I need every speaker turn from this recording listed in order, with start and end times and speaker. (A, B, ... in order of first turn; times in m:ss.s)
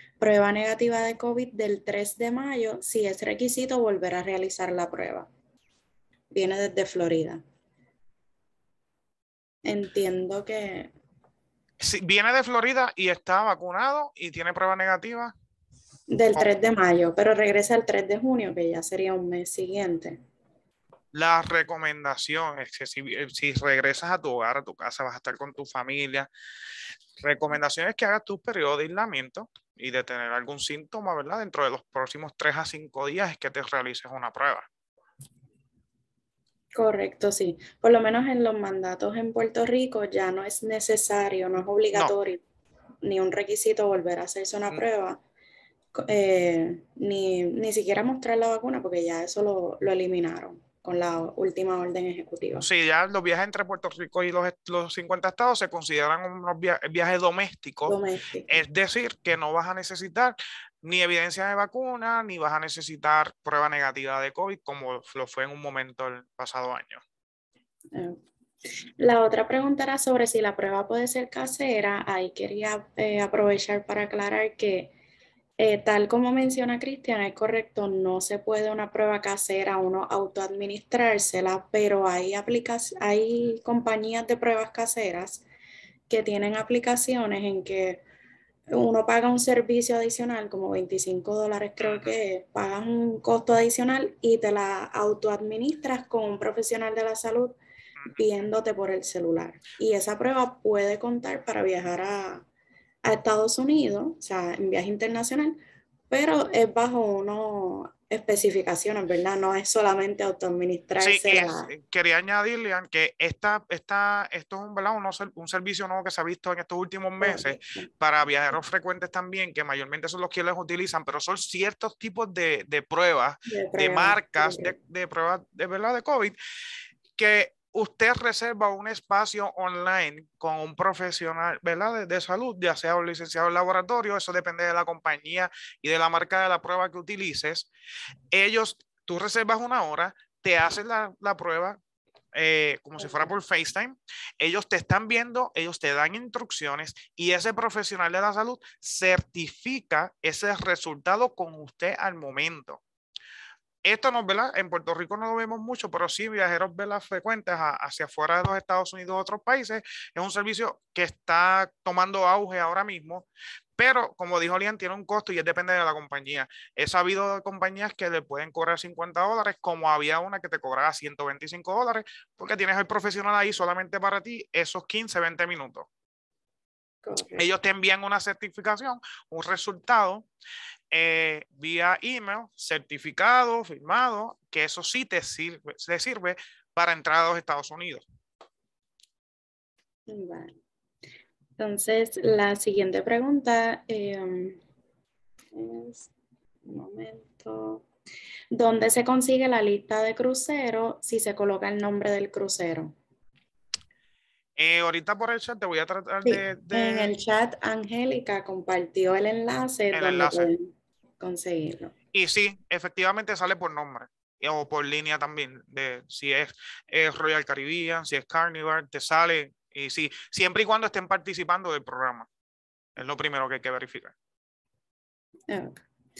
0:00.2-0:05.3 A
0:06.3-0:07.4 A
0:09.6-0:10.9 A
0:11.8-0:15.3 B
0:16.1-0:20.2 A
0:21.1-0:26.3 B
0:27.2-0:34.7 B
0:36.7-0:42.4 A
0:43.0-0:45.2 A
0:46.0-0:52.6 A
0:52.6-0:58.0 B
0:57.9-0:58.6 A
0:58.5-1:07.0 B
1:07.9-1:08.2 A
1:09.0-1:14.9 A
1:15.6-1:25.4 A
1:26.1-1:28.0 A
1:28.7-1:37.6 A
1:31.8-1:32.1 B
1:38.2-1:42.4 A
1:43.0-1:45.6 A
1:46.1-1:51.7 A
1:51.0-2:06.4 B
1:57.2-1:57.9 A
2:03.5-2:04.7 A
2:07.2-2:17.7 B
2:18.3-2:21.8 B
2:22.4-2:32.8 B
2:33.8-2:43.3 B
2:43.8-2:55.9 B
2:57.0-2:57.4 A
2:57.4-3:00.3 B
3:00.9-3:08.0 B
3:10.1-3:10.6 A
3:11.6-3:14.6 A
3:15.5-3:16.1 A
3:16.7-3:17.8 A
3:18.5-3:23.0 A
3:24.6-3:27.1 B
3:26.2-3:30.7 A
3:29.9-3:30.5 B
3:31.2-3:31.9 A
3:32.1-3:42.3 B
3:43.0-3:44.1 B
3:45.5-3:45.8 A